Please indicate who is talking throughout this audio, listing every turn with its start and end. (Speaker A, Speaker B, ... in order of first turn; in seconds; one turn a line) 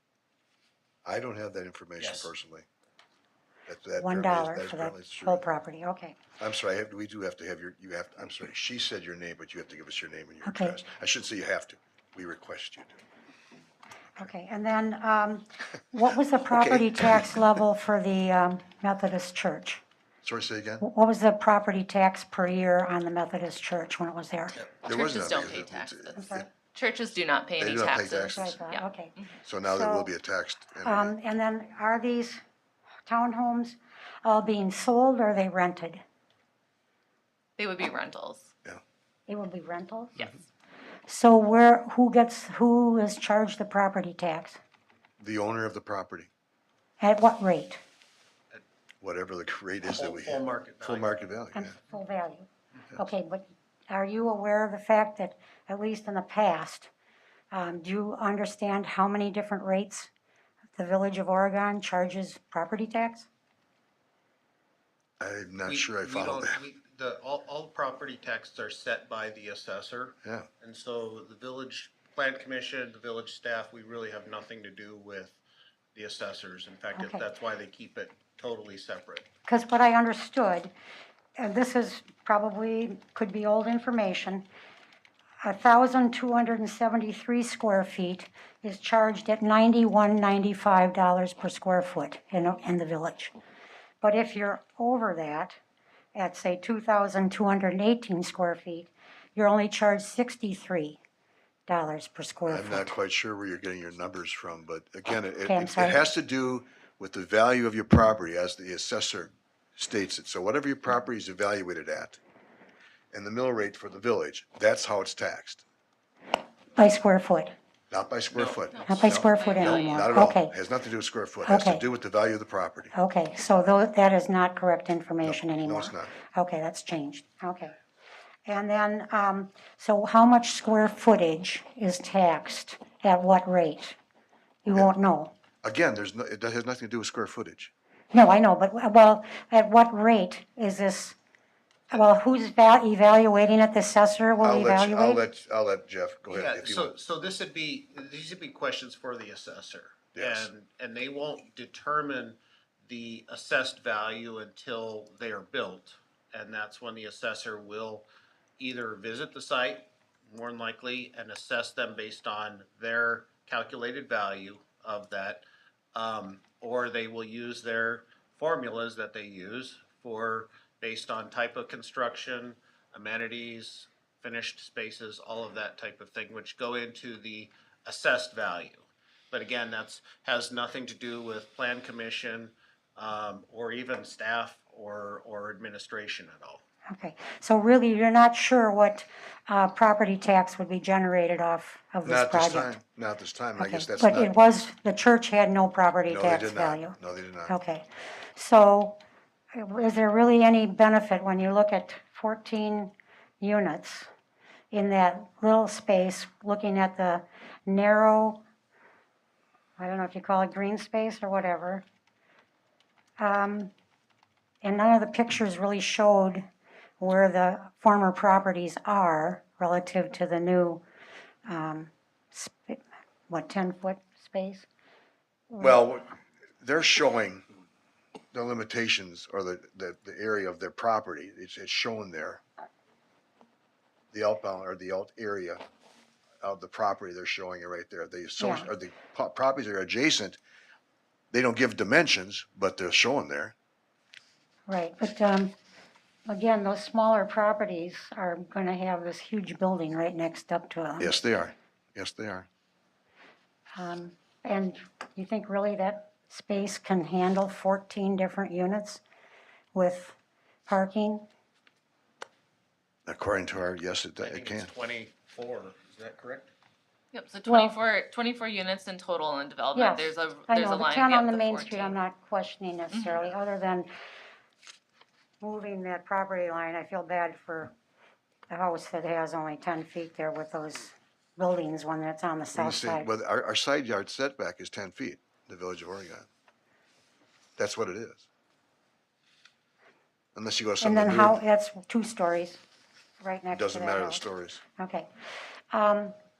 Speaker A: 1.0-2.6
Speaker B: 2.0-2.3
Speaker A: 3.7-5.4
Speaker C: 4.0-6.2
Speaker A: 6.4-12.9
Speaker C: 10.4-10.8
Speaker C: 14.2-19.8
Speaker A: 16.5-17.6
Speaker A: 20.2-20.8
Speaker C: 20.8-24.6
Speaker D: 24.7-29.3
Speaker A: 24.8-26.4
Speaker C: 26.1-26.5
Speaker A: 27.6-28.6
Speaker C: 28.3-30.1
Speaker A: 29.4-31.1
Speaker C: 30.8-32.4
Speaker C: 33.1-36.0
Speaker D: 37.6-38.5
Speaker C: 39.3-40.3
Speaker C: 41.1-44.6
Speaker A: 45.2-46.3
Speaker C: 47.0-47.8
Speaker A: 49.0-51.7
Speaker B: 49.9-51.1
Speaker C: 51.5-56.9
Speaker C: 57.5-60.1
Speaker C: 60.8-63.3
Speaker A: 65.2-66.6
Speaker B: 65.6-75.4
Speaker B: 75.9-79.3
Speaker C: 76.9-77.2
Speaker C: 79.5-80.7
Speaker C: 81.4-84.5
Speaker C: 85.4-93.3
Speaker C: 94.0-95.6
Speaker C: 96.1-101.0
Speaker C: 101.7-102.9
Speaker A: 102.5-112.2
Speaker C: 105.5-106.0
Speaker A: 113.1-115.6
Speaker C: 116.8-117.5
Speaker A: 117.9-122.9
Speaker D: 118.3-120.1
Speaker C: 118.8-120.5
Speaker C: 121.4-121.8
Speaker C: 122.9-127.8
Speaker A: 125.2-126.1
Speaker C: 128.4-134.0
Speaker C: 134.6-135.3
Speaker A: 135.6-137.7
Speaker C: 138.1-141.2
Speaker C: 141.9-145.2
Speaker A: 144.4-146.9
Speaker B: 146.3-158.1
Speaker A: 150.1-150.5
Speaker B: 158.6-165.4
Speaker B: 165.9-186.6
Speaker C: 186.9-192.7
Speaker A: 192.0-194.3
Speaker C: 193.6-199.0
Speaker A: 196.1-197.6
Speaker C: 199.5-204.1
Speaker C: 204.7-208.4
Speaker C: 209.8-211.8
Speaker C: 213.2-213.7
Speaker C: 214.6-216.4
Speaker C: 217.0-220.8
Speaker C: 221.4-224.7
Speaker C: 225.5-225.8
Speaker A: 225.6-227.4
Speaker A: 228.3-232.4
Speaker A: 234.1-235.6
Speaker A: 236.4-240.4
Speaker C: 238.4-238.7
Speaker A: 241.3-243.5
Speaker C: 244.7-245.5
Speaker C: 246.2-251.2
Speaker A: 251.0-252.5
Speaker C: 253.8-259.0
Speaker C: 259.7-260.1
Speaker C: 260.7-261.3
Speaker A: 263.1-264.7
Speaker B: 264.2-266.5
Speaker D: 267.1-272.0
Speaker C: 267.4-267.8
Speaker C: 269.7-273.9
Speaker C: 275.4-277.7
Speaker C: 278.5-283.1
Speaker A: 282.5-286.3
Speaker A: 287.6-288.2
Speaker A: 290.3-291.4
Speaker C: 290.8-292.6
Speaker C: 293.2-294.2
Speaker A: 293.5-294.6
Speaker C: 294.8-295.1
Speaker C: 295.7-296.1